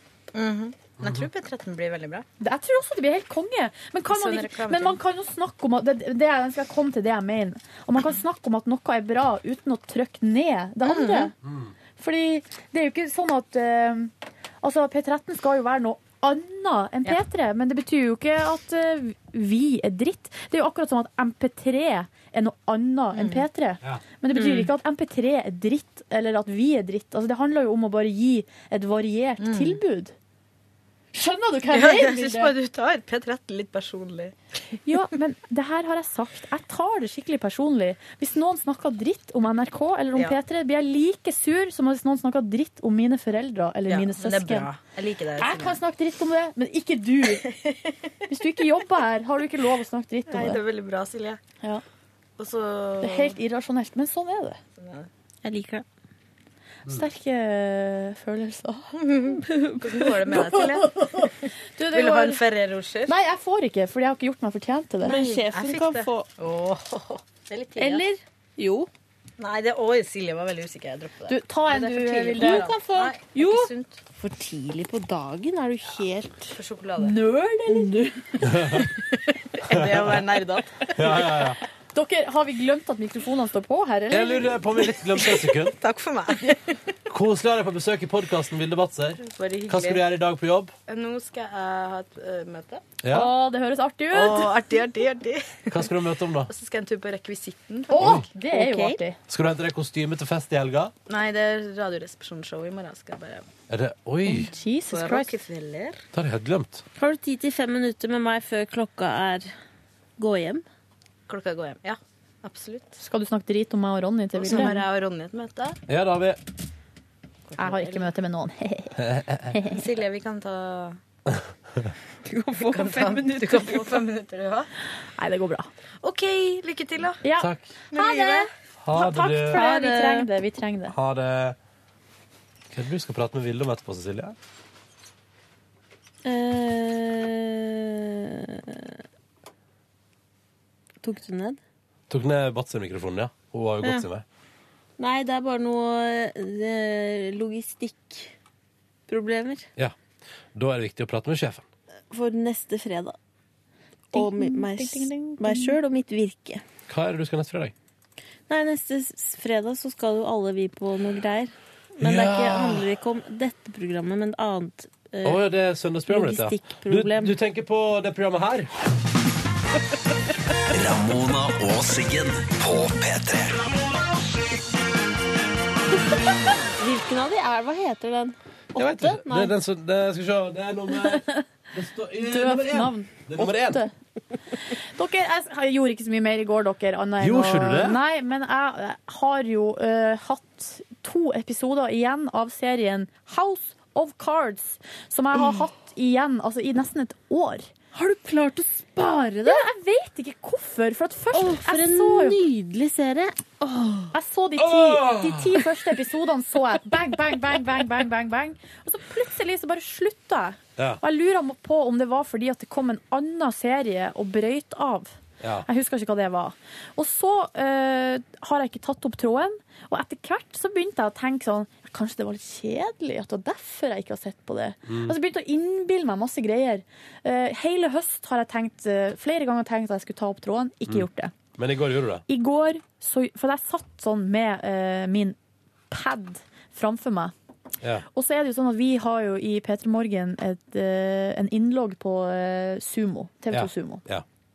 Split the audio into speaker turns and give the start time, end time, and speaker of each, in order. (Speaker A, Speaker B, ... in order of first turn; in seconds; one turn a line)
Speaker A: 0.3-2.2
Speaker B: 1.0-1.3
Speaker C: 2.4-11.3
Speaker A: 4.1-5.0
Speaker A: 10.8-11.3
Speaker B: 11.4-11.7
Speaker C: 12.0-30.1
Speaker A: 23.1-23.4
Speaker D: 24.3-24.7
Speaker A: 29.4-29.8
Speaker C: 31.1-32.5
Speaker A: 31.7-34.3
Speaker C: 34.8-44.7
Speaker A: 43.9-45.8
Speaker C: 45.4-47.5
Speaker A: 47.4-47.8
Speaker C: 48.3-50.6
Speaker A: 50.3-51.4
Speaker A: 52.4-53.4
Speaker C: 53.0-54.6
Speaker A: 54.8-55.1
Speaker D: 55.4-55.8
Speaker C: 56.9-58.9
Speaker A: 59.0-61.3
Speaker D: 59.5-59.8
Speaker C: 60.1-62.4
Speaker A: 61.9-63.1
Speaker C: 63.0-65.3
Speaker D: 65.0-66.3
Speaker A: 65.1-68.0
Speaker D: 67.8-68.9
Speaker A: 69.4-74.0
Speaker C: 71.3-72.7
Speaker D: 72.4-76.5
Speaker A: 76.5-77.2
Speaker C: 77.0-78.5
Speaker D: 77.7-78.1
Speaker B: 78.4-78.8
Speaker A: 79.2-80.9
Speaker B: 79.6-80.2
Speaker B: 80.9-81.6
Speaker C: 81.9-84.6
Speaker B: 84.1-85.8
Speaker A: 85.2-86.8
Speaker B: 87.1-90.7
Speaker A: 89.2-90.0
Speaker A: 90.9-92.8
Speaker B: 93.0-93.3
Speaker C: 93.1-94.8
Speaker A: 94.1-95.9
Speaker B: 95.7-96.5
Speaker A: 96.5-98.1
Speaker C: 97.9-99.2
Speaker B: 98.0-98.3
Speaker D: 98.5-99.0
Speaker B: 99.3-100.9
Speaker A: 101.1-103.5
Speaker B: 103.7-104.5
Speaker C: 104.2-105.4
Speaker A: 104.9-106.0
Speaker B: 106.1-106.8
Speaker D: 107.0-109.5
Speaker D: 110.2-110.6
Speaker A: 111.3-113.0
Speaker C: 113.0-114.8
Speaker A: 114.3-115.8
Speaker B: 115.9-116.4
Speaker A: 117.5-118.1
Speaker C: 117.6-118.9
Speaker B: 119.0-119.6
Speaker C: 119.5-119.8
Speaker A: 119.7-121.0
Speaker B: 121.3-121.8
Speaker D: 122.2-124.0
Speaker A: 122.6-124.7
Speaker C: 125.2-125.7
Speaker A: 126.0-127.3
Speaker C: 127.2-130.9
Speaker B: 127.4-127.7
Speaker A: 127.9-128.5
Speaker B: 128.8-129.6
Speaker D: 129.5-130.3
Speaker B: 130.9-131.6
Speaker B: 132.7-134.3
Speaker D: 136.2-138.9
Speaker D: 141.0-141.6
Speaker B: 142.1-144.2
Speaker D: 143.8-144.1
Speaker D: 145.0-148.3
Speaker D: 149.1-149.7
Speaker B: 150.6-151.6
Speaker D: 152.1-153.2
Speaker C: 154.1-155.8
Speaker D: 154.1-156.6
Speaker B: 156.9-157.7
Speaker D: 158.5-165.4
Speaker B: 162.0-162.9
Speaker B: 165.2-168.7
Speaker D: 166.1-167.3
Speaker E: 170.7-173.6
Speaker D: 176.8-179.5
Speaker B: 178.8-183.8
Speaker C: 181.0-181.3
Speaker C: 182.2-183.9
Speaker C: 184.7-197.7
Speaker B: 187.2-188.0
Speaker D: 197.9-199.7
Speaker C: 199.4-202.4
Speaker D: 201.3-204.1
Speaker C: 204.1-231.3
Speaker B: 204.6-205.6
Speaker B: 215.4-215.7
Speaker B: 224.9-225.1
Speaker B: 231.6-232.2
Speaker C: 232.3-235.3
Speaker C: 235.9-237.3
Speaker C: 238.1-244.0
Speaker B: 243.5-244.2